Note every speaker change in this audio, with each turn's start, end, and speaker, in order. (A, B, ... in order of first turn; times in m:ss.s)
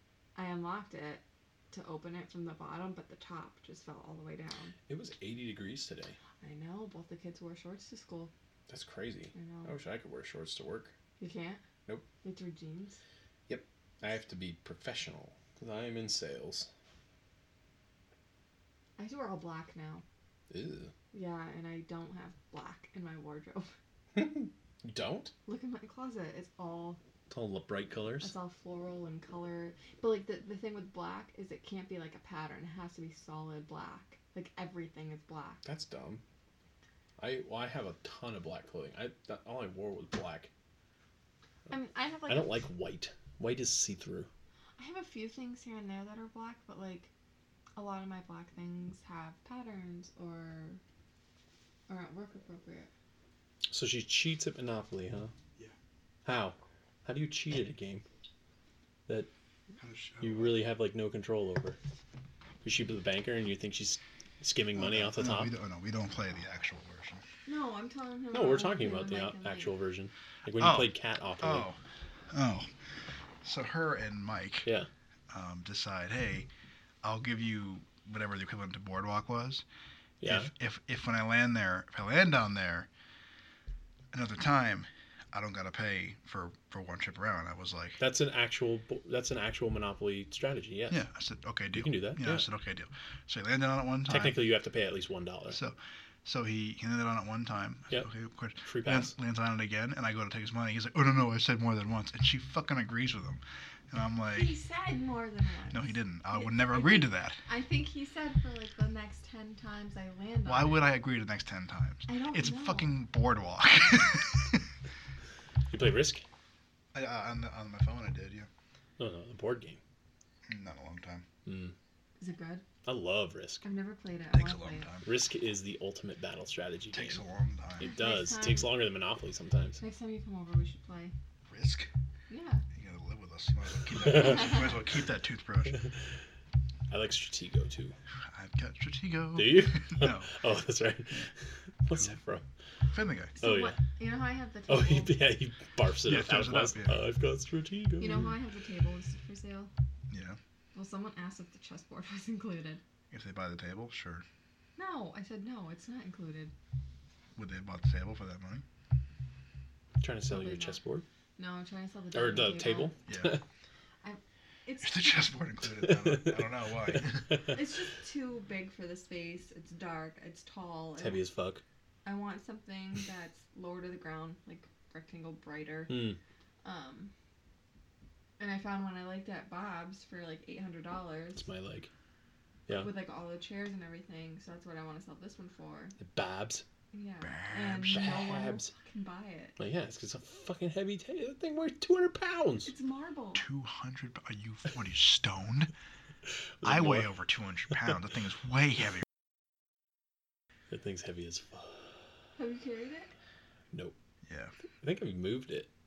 0:00.4-0:04.7 A
0:04.9-0:06.2 B
0:06.4-0:08.3 A
0:08.7-0:10.9 B
0:09.3-0:09.7 A
0:11.2-0:11.6 A
0:12.2-0:13.0 A
0:13.5-0:16.7 B
0:19.0-0:20.0 A
0:20.5-0:20.9 B
0:21.1-0:23.7 A
0:24.1-0:25.3 B
0:25.4-0:27.0 A
0:27.3-0:28.3 B
0:28.2-0:35.6 A
0:35.6-0:36.2 B
0:37.2-0:40.5 B
0:41.7-0:42.6 A
0:42.3-0:44.3 B
0:44.8-0:47.1 A
0:47.8-0:50.8 A
0:51.9-0:52.9 A
0:53.7-0:55.3 B
0:56.2-0:58.0 B
0:59.8-1:00.6 C
1:00.2-1:01.8 B
1:02.6-1:05.5 B
1:04.7-1:07.2 C
1:07.4-1:09.7 A
1:08.3-1:11.7 B
1:10.5-1:12.7 C
1:13.4-1:14.7 C
1:15.3-1:16.5 C
1:17.0-1:19.6 C
1:20.2-1:20.5 B
1:20.2-1:22.9 C
1:24.1-1:28.0 C
1:28.0-1:31.0 B
1:30.9-1:34.4 C
1:31.7-1:32.5 B
1:34.1-1:35.6 B
1:35.5-1:44.6 C
1:38.6-1:39.1 B
1:44.3-1:50.9 A
1:45.7-1:47.4 C
1:50.4-1:54.7 C
1:52.1-1:53.0 A
1:55.7-1:56.2 B
1:56.9-1:58.5 C
1:59.0-1:59.8 B
2:00.4-2:01.2 C
2:01.4-2:01.7 B
2:02.2-2:02.7 A
2:02.8-2:03.6 B
2:03.6-2:04.9 A
2:04.3-2:05.0 C
2:05.0-2:07.2 B
2:06.9-2:07.9 C
2:07.8-2:09.8 B
2:07.8-2:08.8 A
2:09.8-2:11.1 A
2:11.5-2:11.9 C
2:12.3-2:12.6 A
2:12.7-2:15.8 C
2:14.0-2:14.6 B
2:14.2-2:14.7 A
2:16.9-2:18.0 B
2:18.3-2:20.3 C
2:19.4-2:22.4 B
2:21.9-2:22.2 C
2:22.9-2:23.3 C
2:23.4-2:25.2 A
2:23.4-2:23.8 B
2:24.7-2:28.3 B
2:26.0-2:27.0 C
2:28.0-2:29.7 A
2:30.1-2:30.4 C
2:30.7-2:32.8 A
2:33.1-2:34.2 C
2:34.8-2:36.5 A
2:37.4-2:38.6 C
2:40.0-2:41.0 B
2:40.3-2:40.8 A
2:41.4-2:43.0 A
2:42.1-2:43.4 B
2:43.1-2:43.3 C
2:44.0-2:45.4 A
2:44.8-2:47.4 C
2:45.8-2:47.6 B
2:47.5-2:51.2 A
2:51.0-2:51.6 B
2:52.0-2:56.0 A
2:55.9-2:56.2 B
2:56.6-2:57.1 A
2:58.4-3:01.4 A
3:01.3-3:01.9 B
3:02.7-3:06.0 A
3:06.0-3:06.6 B
3:06.9-3:09.6 A
3:07.2-3:08.0 C
3:07.9-3:08.7 B
3:09.6-3:12.7 B
3:12.7-3:13.4 A
3:13.3-3:15.7 C
3:16.6-3:17.2 B
3:16.6-3:19.0 C
3:20.7-3:21.9 B
3:22.4-3:23.1 A
3:24.2-3:24.5 C
3:24.8-3:25.7 B